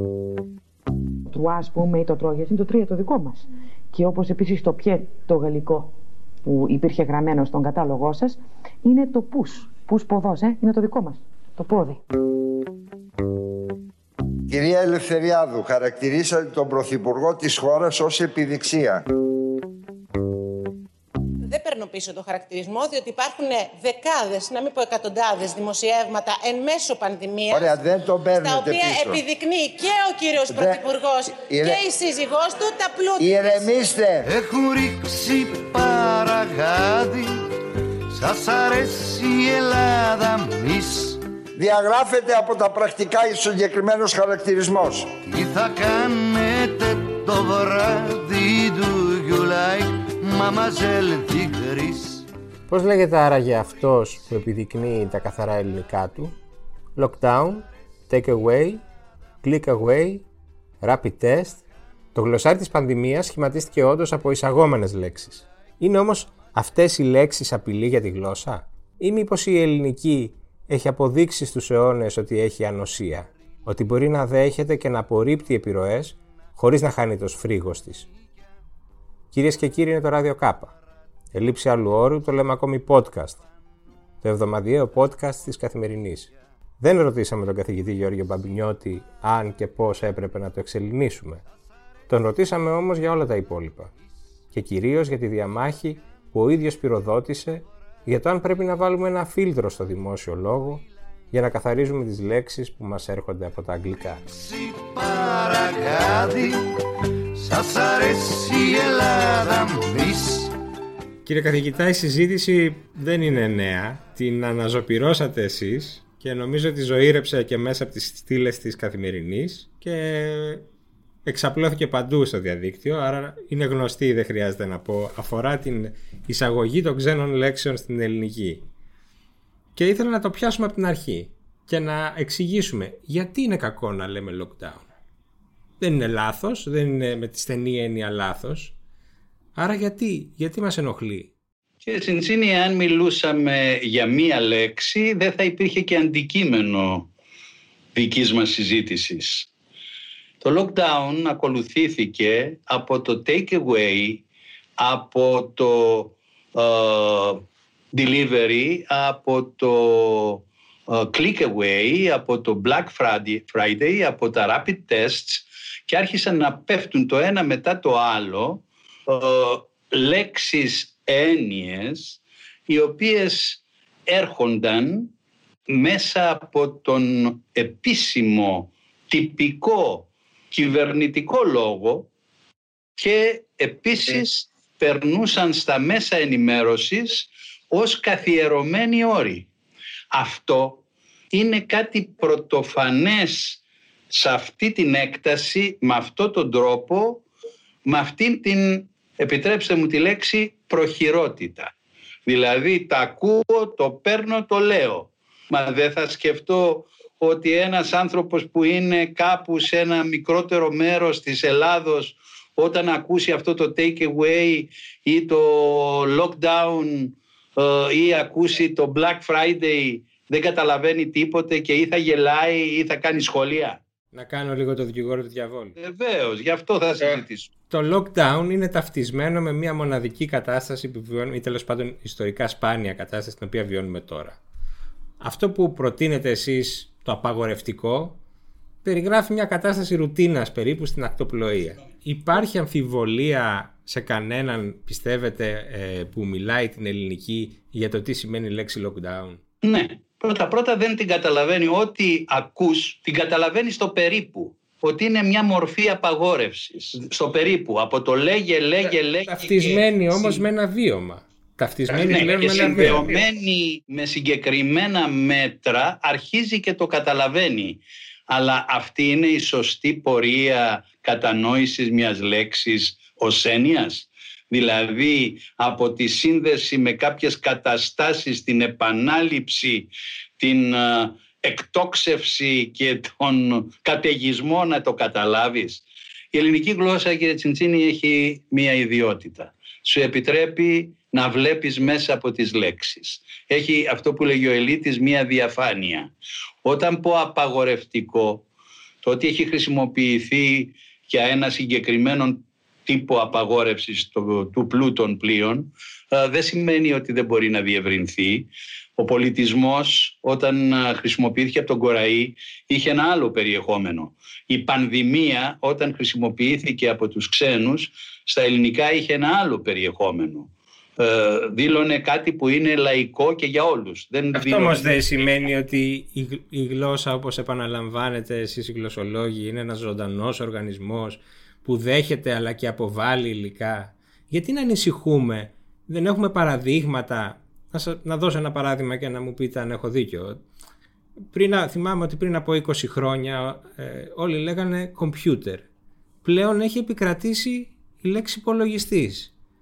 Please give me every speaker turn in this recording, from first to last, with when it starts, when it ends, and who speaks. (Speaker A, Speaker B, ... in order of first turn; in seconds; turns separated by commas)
Speaker A: 1.3-12.0, Speaker B: 14.5-19.0, Speaker C: 21.4-27.7, Speaker B: 27.5-29.2, Speaker C: 28.4-33.7, Speaker B: 30.5-30.8, Speaker B: 31.4-31.8, Speaker B: 33.2-34.3, Speaker D: 34.2-37.3, Speaker D: 38.1-41.2, Speaker B: 41.6-45.1, Speaker D: 45.3-52.3, Speaker E: 52.7-56.4, Speaker E: 57.0-58.8, Speaker E: 59.4-60.2, Speaker E: 60.8-78.1, Speaker E: 79.3-80.8, Speaker E: 81.3-83.4, Speaker E: 84.2-91.4, Speaker E: 92.1-93.9, Speaker E: 94.5-104.2, Speaker D: 104.3-106.7, Speaker D: 107.3-110.5, Speaker E: 111.2-120.6, Speaker E: 121.2-128.7, Speaker E: 129.8-134.9, Speaker E: 135.8-138.7, Speaker E: 139.6-141.3, Speaker F: 141.8-147.1, Speaker F: 147.9-149.5, Speaker F: 150.4-154.2, Speaker F: 154.8-157.4, Speaker F: 157.9-175.1, Speaker F: 175.7-182.1, Speaker F: 183.0-189.5, Speaker F: 190.1-193.6, Speaker F: 194.1-197.2, Speaker F: 197.9-201.7, Speaker F: 202.3-223.8, Speaker E: 224.1-225.8, Speaker F: 225.8-227.5, Speaker E: 227.0-234.4, Speaker E: 235.2-238.2, Speaker E: 238.8-249.4, Speaker F: 249.6-260.4, Speaker E: 259.3-263.2, Speaker F: 261.9-296.1, Speaker F: 296.6-298.4, Speaker F: 299.0-325.4, Speaker E: 324.3-340.4, Speaker E: 341.3-345.7, Speaker E: 346.2-349.3